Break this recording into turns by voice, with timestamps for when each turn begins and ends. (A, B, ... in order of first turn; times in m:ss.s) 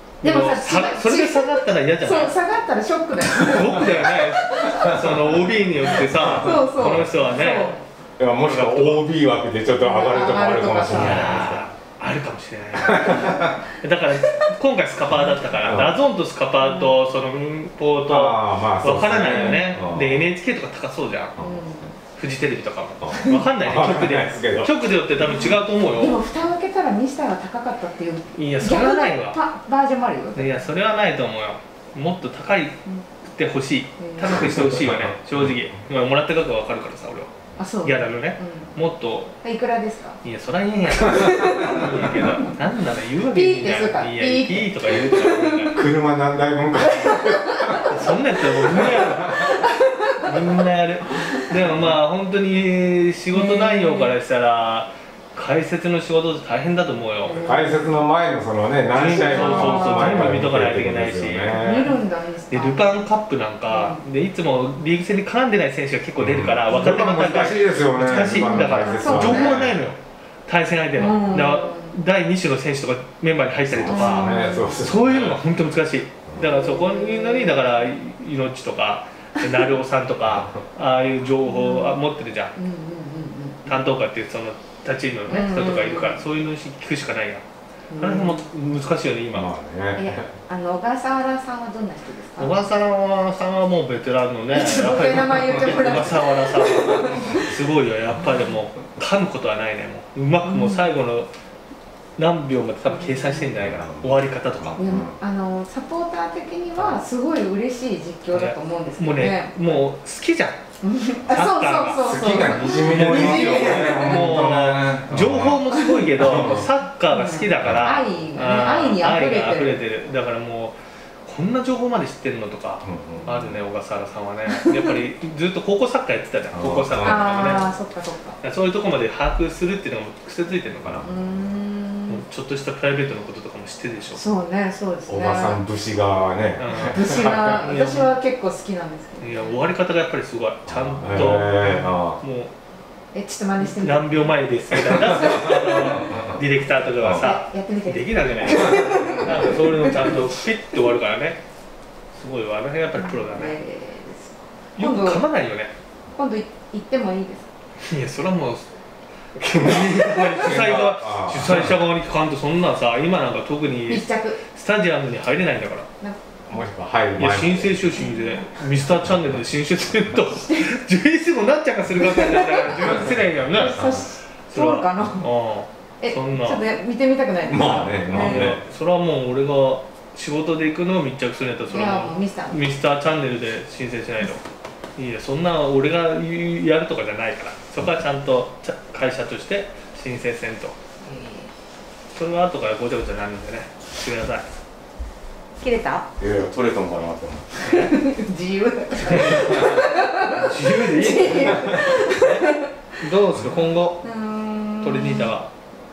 0:00.2-0:02.3 A
0:00.2-0:04.9 B
0:03.4-0:07.8 A
0:04.8-0:05.3 C
0:05.9-0:07.1 C
0:06.3-0:07.8 B
0:08.2-0:11.7 C
0:08.4-0:09.0 A
0:09.8-0:11.5 B
0:10.9-0:21.4 A
0:12.8-0:13.6 C
0:15.6-0:16.0 C
0:16.6-0:17.0 B
0:18.1-0:20.3 C
0:19.2-0:19.6 B
0:21.4-0:21.7 C
0:21.4-0:22.0 B
0:22.2-0:26.2 A
0:23.0-0:24.7 C
0:25.2-0:30.6 B
0:28.3-0:29.4 A
0:30.3-0:37.3 A
0:34.0-0:34.6 B
0:34.3-0:35.5 C
0:37.6-0:38.7 B
0:37.8-0:39.4 A
0:39.4-0:40.2 B
0:40.2-0:45.8 A
0:41.0-0:42.5 B
0:43.2-0:45.8 B
0:45.7-0:48.0 C
0:46.8-0:48.0 B
0:47.9-0:49.6 A
0:48.6-0:49.5 C
0:48.7-0:50.5 B
0:50.2-0:57.4 A
0:53.3-0:54.1 B
0:57.2-0:58.0 B
0:57.4-1:01.9 C
0:58.9-1:02.0 A
0:59.1-1:00.3 B
1:01.5-1:03.0 B
1:02.5-1:22.5 A
1:03.7-1:04.0 B
1:06.2-1:09.8 C
1:08.1-1:09.6 B
1:11.0-1:12.0 B
1:11.0-1:11.4 C
1:13.7-1:15.4 C
1:13.8-1:14.8 B
1:16.4-1:17.8 B
1:21.4-1:22.0 B
1:22.5-1:23.8 B
1:23.6-1:27.4 A
1:25.3-1:26.2 B
1:27.9-1:28.5 B
1:28.0-1:29.5 A
1:29.3-1:30.3 C
1:29.9-1:32.6 B
1:32.4-1:41.3 A
1:34.5-1:37.5 B
1:40.4-1:40.9 B
1:42.2-1:44.8 A
1:42.8-1:43.6 B
1:43.6-1:45.2 C
1:44.8-1:49.9 B
1:48.3-1:50.6 A
1:50.8-1:54.3 B
1:51.3-2:07.7 A
1:52.0-1:55.6 C
1:56.2-1:56.7 C
1:56.5-1:59.8 B
1:57.6-1:57.9 C
2:02.8-2:03.6 C
2:06.5-2:07.6 C
2:07.0-2:08.4 B
2:08.4-2:11.0 A
2:10.8-2:11.3 C
2:11.0-2:12.2 B
2:12.1-2:14.2 A
2:14.1-2:15.6 B
2:15.1-2:17.7 C
2:16.6-2:18.1 A
2:16.8-2:19.7 B
2:19.2-2:22.5 A
2:20.7-2:22.2 C
2:23.1-2:26.0 B
2:23.6-2:31.4 A
2:24.8-2:26.4 C
2:27.0-2:27.3 C
2:27.1-2:30.3 B
2:28.7-2:29.2 C
2:32.1-2:33.6 A
2:33.0-2:35.2 B
2:34.8-2:35.7 A
2:36.1-2:37.5 B
2:37.8-2:38.7 A
2:39.4-2:45.9 A
2:40.3-2:41.8 C
2:43.9-2:44.4 B
2:46.5-2:48.0 C
2:47.2-2:53.8 A
2:47.9-2:48.5 B
2:50.3-2:50.8 B
2:52.0-2:55.3 B
2:53.8-2:54.0 C
2:54.5-2:56.6 A
2:56.0-2:58.5 B
2:57.5-2:58.6 C
2:58.1-3:04.4 A
3:01.7-3:02.6 B
3:05.0-3:10.7 A
3:11.0-3:11.5 B
3:12.1-3:14.4 A
3:15.6-3:16.0 B
3:16.2-3:17.8 C
3:17.6-3:22.6 B
3:19.1-3:24.0 A
3:19.2-3:19.7 C
3:21.1-3:21.9 C
3:24.0-3:25.4 B
3:24.8-3:25.5 A